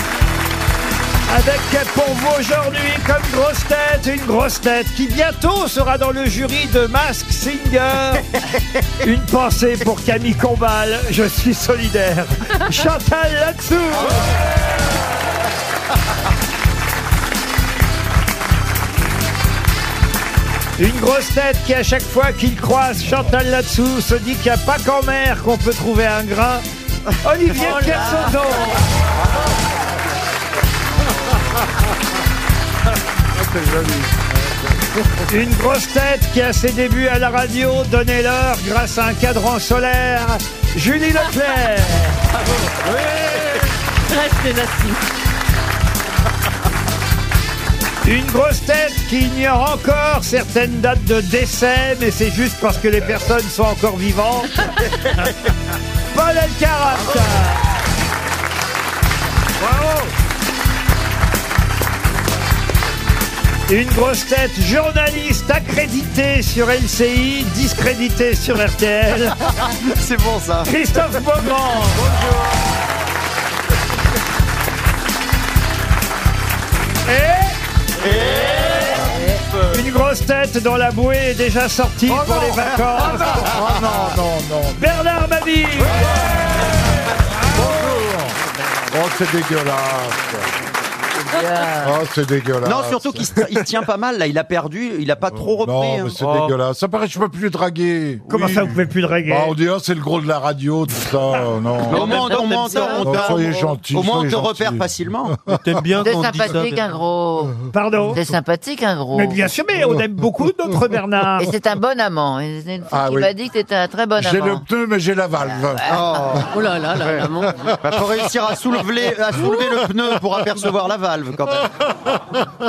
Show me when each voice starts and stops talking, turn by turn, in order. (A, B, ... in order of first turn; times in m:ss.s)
0:01.3-0:08.3 A
0:09.0-0:14.2 A
0:20.8-0:26.6 A
0:27.2-0:28.8 A
0:27.6-0:28.3 B
0:33.4-0:34.3 C
0:35.3-0:42.2 A
0:44.1-0:45.0 D
0:48.0-0:54.7 A
0:56.1-0:57.6 A
1:03.7-1:09.4 A
1:09.5-1:10.7 E
1:10.6-1:12.0 A
1:17.0-1:17.5 A
1:18.0-1:19.1 E
1:19.6-1:23.3 A
1:22.1-1:24.9 C
1:22.7-1:24.1 E
1:24.8-1:26.3 A
1:27.5-1:28.4 C
1:28.9-1:30.5 C
1:31.3-1:32.0 B
1:31.8-1:33.4 C
1:32.6-1:36.5 E
1:35.4-1:42.2 C
1:38.3-1:39.6 A
1:41.9-1:45.4 E
1:41.9-1:43.4 F
1:42.1-1:43.1 B
1:42.9-1:45.6 C
1:45.4-1:46.8 F
1:46.0-1:49.4 B
1:47.7-1:48.2 A
1:49.1-1:51.6 A
1:51.4-1:54.6 B
1:52.9-1:53.3 C
1:54.2-1:55.9 C
1:55.4-1:56.4 B
1:55.9-1:57.3 E
1:56.5-1:57.7 D
1:57.8-2:01.7 E